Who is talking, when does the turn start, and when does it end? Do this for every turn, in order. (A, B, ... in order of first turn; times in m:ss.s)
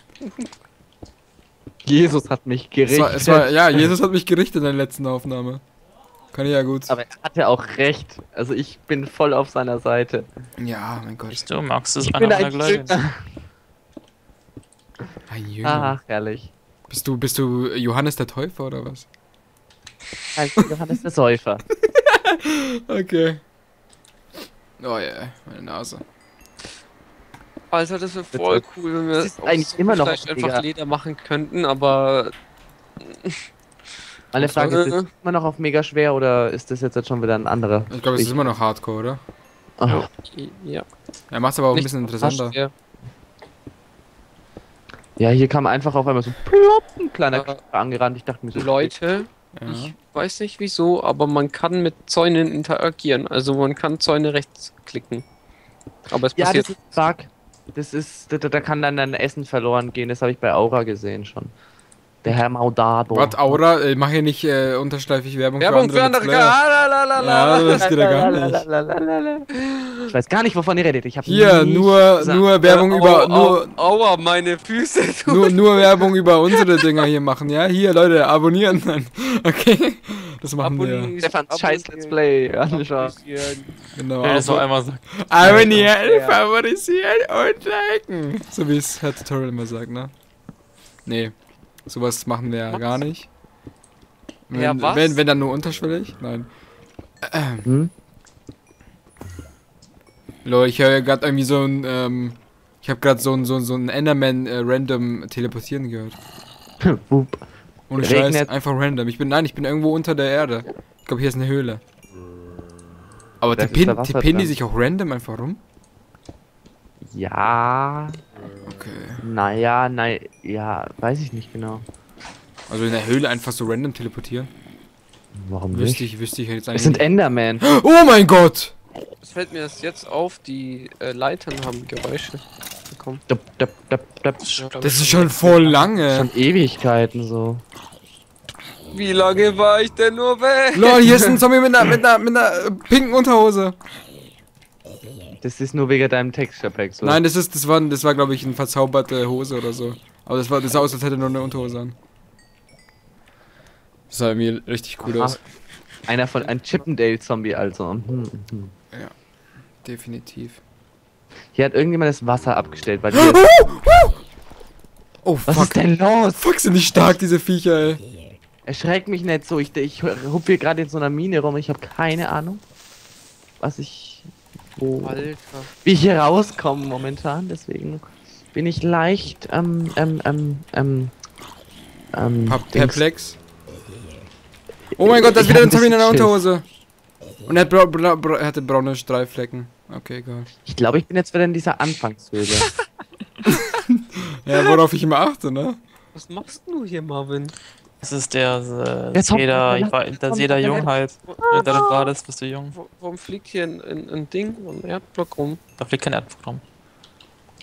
0:01.8-0:03.9 A
0:02.9-0:05.6 B
0:06.3-0:06.9 B
0:06.9-0:10.3 A
0:10.6-0:11.4 B
0:11.3-0:12.9 C
0:12.0-0:13.2 A
0:15.3-0:16.0 B
0:15.6-0:16.5 A
0:16.9-0:19.0 B
0:20.4-0:21.6 A
0:21.8-0:23.4 B
0:24.8-0:26.0 B
0:27.7-0:32.3 D
0:28.3-0:28.6 A
0:29.2-0:30.6 A
0:33.0-0:33.4 D
0:34.3-0:38.4 A
0:34.4-0:34.8 B
0:34.6-0:35.1 D
0:37.9-0:39.2 B
0:39.8-0:40.1 A
0:39.9-0:40.8 D
0:41.3-0:42.6 B
0:41.7-0:42.7 D
0:45.2-0:49.0 A
0:47.3-0:47.6 D
0:48.5-0:55.2 D
0:49.5-0:49.9 B
0:56.1-0:56.8 D
0:56.4-1:01.5 A
1:02.2-1:03.6 A
1:03.1-1:06.6 B
1:05.6-1:08.3 D
1:07.2-1:08.6 B
1:07.6-1:09.5 A
1:09.6-1:10.1 D
1:10.1-1:12.5 A
1:11.2-1:13.7 B
1:12.6-1:16.0 D
1:15.3-1:21.1 B
1:20.6-1:23.7 D
1:21.2-1:23.1 A
1:23.9-1:30.1 B
1:24.2-1:25.9 C
1:25.4-1:26.4 D
1:31.0-1:31.3 B
1:31.9-1:33.3 B
1:32.7-1:33.0 D
1:34.5-1:36.5 B
1:34.5-1:35.2 D
1:37.2-1:37.6 B
1:37.6-1:37.9 A
1:40.4-1:46.2 B
1:46.8-1:47.4 A
1:47.9-1:51.8 B
1:48.0-1:48.5 A
1:53.4-1:55.6 B
1:53.6-1:54.6 A
1:57.1-1:58.2 A
1:58.6-1:59.2 B
1:59.2-2:01.8 A
2:02.7-2:04.5 B
2:05.3-2:06.0 A
2:05.7-2:07.0 B
2:06.7-2:07.6 A
2:07.6-2:08.7 B
2:09.2-2:13.2 D
2:13.3-2:14.5 A
2:14.5-2:15.7 D
2:14.8-2:16.3 B
2:16.1-2:17.6 A
2:18.9-2:21.0 D
2:20.7-2:23.8 B
2:21.0-2:21.4 A
2:25.4-2:27.2 A
2:27.0-2:32.0 B
2:34.1-2:35.4 B
2:35.0-2:35.4 A
2:36.1-2:38.7 A
2:39.8-2:40.6 B
2:41.5-2:43.4 A
2:43.1-2:44.2 B
2:45.2-2:45.8 B
2:45.4-2:46.4 A
2:46.4-2:48.0 B
2:48.6-2:52.6 A
2:53.6-2:55.2 A
2:54.9-2:55.7 D
2:55.8-3:01.1 A
3:02.1-3:03.0 A
3:02.4-3:03.4 B
3:05.0-3:06.6 B
3:05.1-3:06.4 A
3:07.4-3:10.5 B
3:10.6-3:12.7 A
3:14.4-3:15.8 B
3:16.1-3:17.5 D
3:18.0-3:22.8 C
3:19.1-3:20.9 A
3:20.6-3:22.1 D
3:22.7-3:25.6 D
3:25.8-3:26.6 C